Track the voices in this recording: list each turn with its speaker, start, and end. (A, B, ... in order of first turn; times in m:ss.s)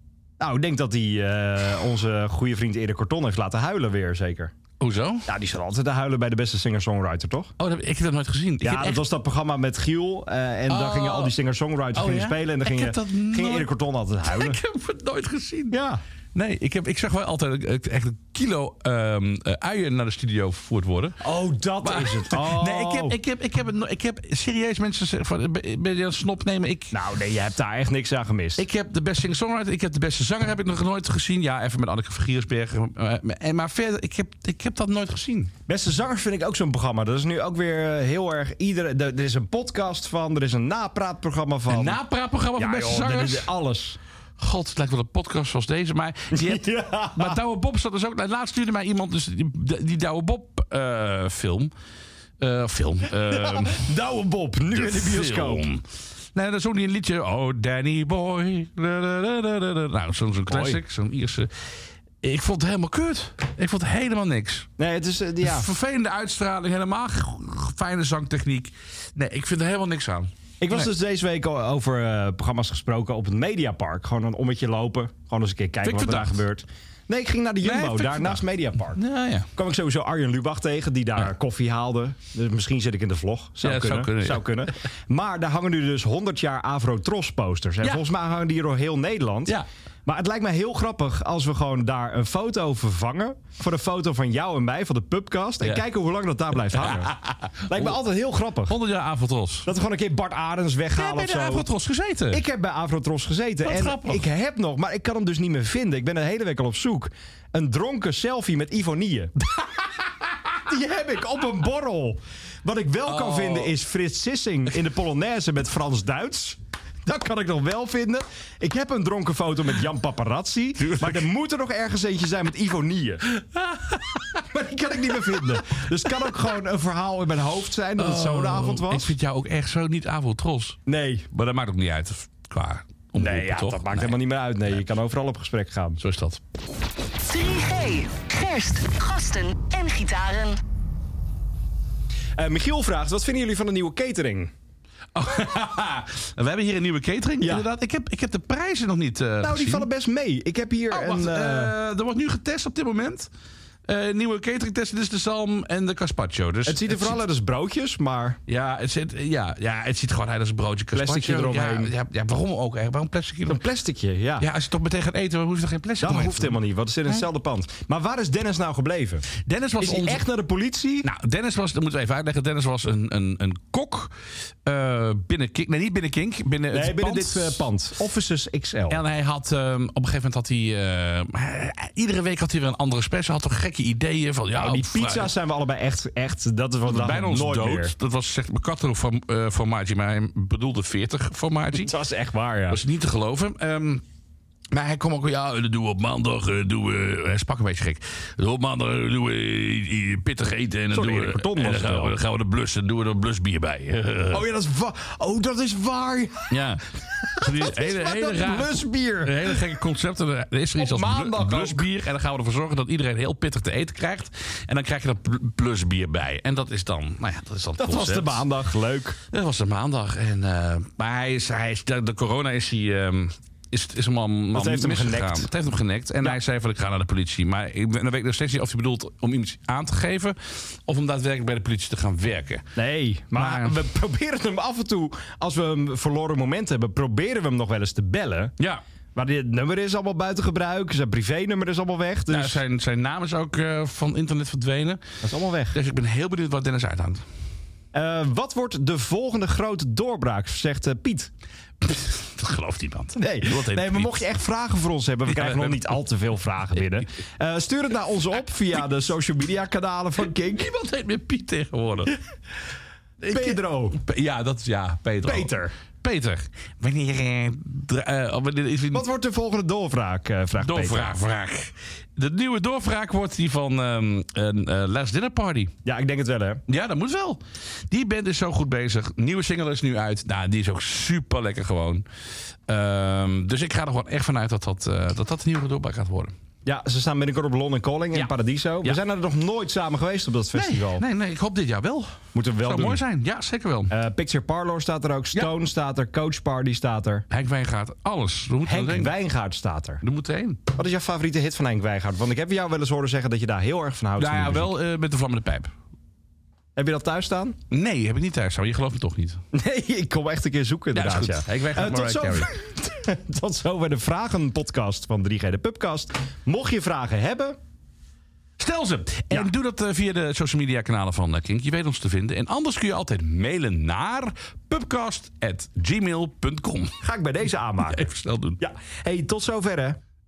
0:00.4-0:04.5 A
0:04.8-0:05.3 B
0:05.3-0:07.5 A
0:07.6-0:09.0 B
0:08.6-0:14.6 A
0:10.7-0:11.3 B
0:11.9-0:13.7 B
0:14.2-0:15.8 B
0:15.7-0:16.0 A
0:16.3-0:21.2 B
0:21.2-0:23.2 A
0:21.8-0:27.0 B
0:26.9-0:28.6 A
0:28.6-0:35.5 B
0:35.7-0:42.0 A
0:41.7-0:43.5 B
0:42.6-0:44.0 A
0:44.4-0:51.7 B
0:46.3-0:47.4 A
0:52.4-0:53.9 B
0:53.2-0:55.6 A
0:54.7-1:01.5 B
1:00.5-1:00.8 A
1:02.2-1:04.7 B
1:04.8-1:05.7 A
1:05.4-1:10.9 B
1:10.6-1:19.0 A
1:15.8-1:16.4 B
1:17.6-1:19.5 B
1:19.5-1:37.1 A
1:23.6-1:24.5 B
1:36.7-1:37.9 B
1:37.7-1:38.7 A
1:38.7-1:39.7 B
1:39.6-1:41.6 A
1:40.9-1:42.4 B
1:42.3-1:49.3 A
1:43.6-1:44.2 B
1:50.7-2:03.2 A
1:53.0-1:53.7 B
2:00.8-2:01.2 B
2:03.4-2:04.4 B
2:04.4-2:09.1 A
2:08.0-2:10.8 B
2:10.9-2:11.3 A
2:11.3-2:14.1 B
2:13.1-2:16.0 A
2:16.0-2:16.4 B
2:17.2-2:20.6 C
2:22.4-2:24.5 A
2:25.1-2:29.9 B
2:27.4-2:27.7 A
2:29.4-2:31.7 A
2:30.9-2:33.3 B
2:33.9-2:37.2 B
2:36.6-2:38.4 A
2:38.5-2:43.6 B
2:40.9-2:41.9 A
2:43.5-2:44.4 A
2:44.4-2:47.3 B
2:46.0-2:49.2 A
2:49.4-2:50.2 B
2:49.8-2:51.1 A
2:51.0-2:54.1 B
2:54.6-2:57.7 B
2:56.7-2:59.0 A
2:58.9-3:05.3 B
3:04.5-3:07.9 A
3:06.8-3:11.9 B
3:11.7-3:12.8 A
3:12.7-3:14.0 B
3:14.7-3:24.4 B
3:20.9-3:22.2 A
3:24.3-3:29.6 A
3:26.5-3:26.8 B
3:27.4-3:38.5 B
3:30.8-3:31.9 A
3:37.8-3:39.2 A
3:39.3-3:52.7 B
3:44.5-3:45.5 A
3:52.8-3:58.5 A
3:53.3-3:53.8 B
3:59.1-4:02.6 A
4:02.3-4:05.0 B
4:05.2-4:05.8 A
4:05.7-4:07.2 B
4:07.9-4:11.3 A
4:11.8-4:14.3 B
4:13.2-4:20.7 A
4:15.3-4:16.0 B
4:20.5-4:22.2 B
4:23.2-4:29.1 B
4:23.3-4:24.0 A
4:25.2-4:25.7 A
4:28.9-4:31.2 A
4:30.6-4:35.7 B
4:35.8-4:36.6 A
4:36.7-4:42.0 B
4:42.7-4:46.3 B
4:46.6-4:51.0 A
4:48.1-4:49.0 B
4:50.5-4:53.9 B
4:52.3-4:53.0 A
4:53.9-4:57.2 A
4:57.3-4:59.1 B
4:58.6-5:00.0 A
5:00.0-5:00.6 B
5:00.7-5:04.7 A
5:04.2-5:05.7 B
5:06.8-5:07.6 A
5:07.7-5:09.4 B
5:09.5-5:17.6 A
5:10.9-5:12.5 B
5:18.6-5:27.0 B
5:27.0-5:28.1 A
5:27.8-5:28.6 B
5:28.6-5:30.0 A